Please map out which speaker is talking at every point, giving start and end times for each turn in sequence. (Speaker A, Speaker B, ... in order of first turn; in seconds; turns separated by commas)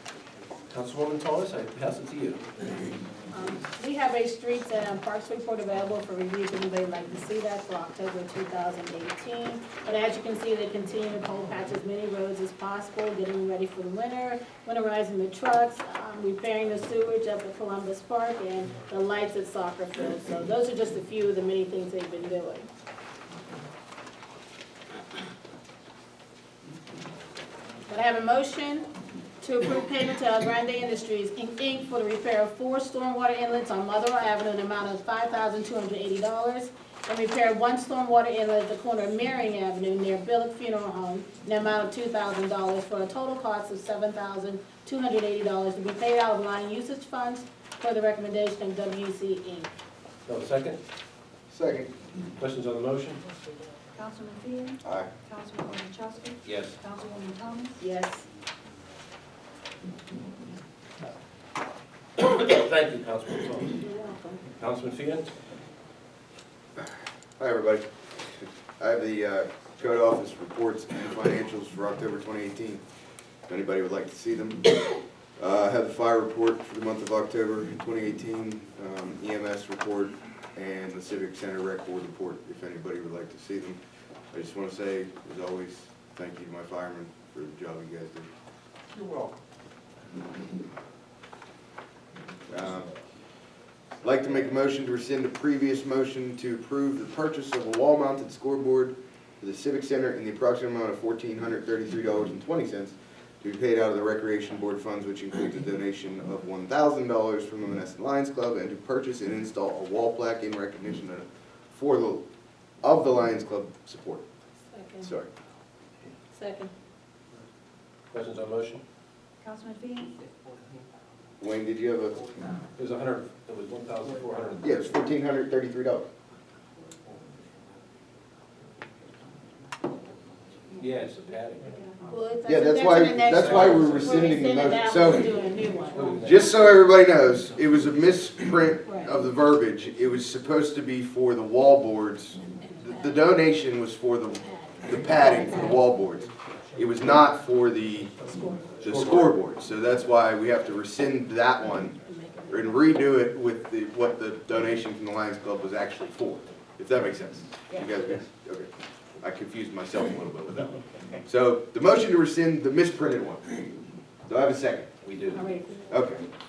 Speaker A: 0.7-2.9, Speaker B: 3.3-22.7, Speaker B: 27.9-28.9, Speaker B: 29.4-49.7, Speaker A: 50.3-50.8, Speaker C: 51.5-51.9, Speaker A: 52.4-53.2, Speaker D: 53.9-57.8, Speaker C: 54.8-55.1, Speaker A: 56.4-56.8, Speaker B: 57.8-58.3, Speaker A: 62.2-63.8, Speaker B: 63.8-64.4, Speaker A: 64.6-65.3, Speaker C: 67.4-72.8, Speaker C: 73.5-83.8, Speaker C: 84.3-88.3, Speaker C: 92.5-92.9, Speaker C: 94.0-112.2, Speaker C: 112.8-114.2, Speaker B: 114.7-115.1, Speaker C: 115.0-115.3, Speaker B: 116.3-116.7, Speaker A: 118.1-118.8, Speaker D: 119.4-120.1, Speaker C: 121.4-122.2, Speaker A: 122.8-124.7, Speaker C: 124.6-126.1, Speaker A: 130.7-131.7, Speaker B: 131.8-136.3, Speaker C: 132.4-135.4, Speaker A: 133.3-134.1, Speaker A: 135.9-136.7, Speaker C: 136.2-148.1, Speaker B: 138.9-139.1, Speaker B: 142.6-143.2, Speaker B: 144.4-145.8, Speaker B: 148.3-148.7, Speaker C: 148.8-151.9, Speaker A: 148.8-149.3, Speaker B: 152.1-152.7, Speaker C: 152.5-158.7, Speaker C: 159.2-163.5, Speaker C: 164.3-164.9, Speaker A: 165.0-165.4, Speaker B: 165.3-165.9, Speaker C: 165.9-166.2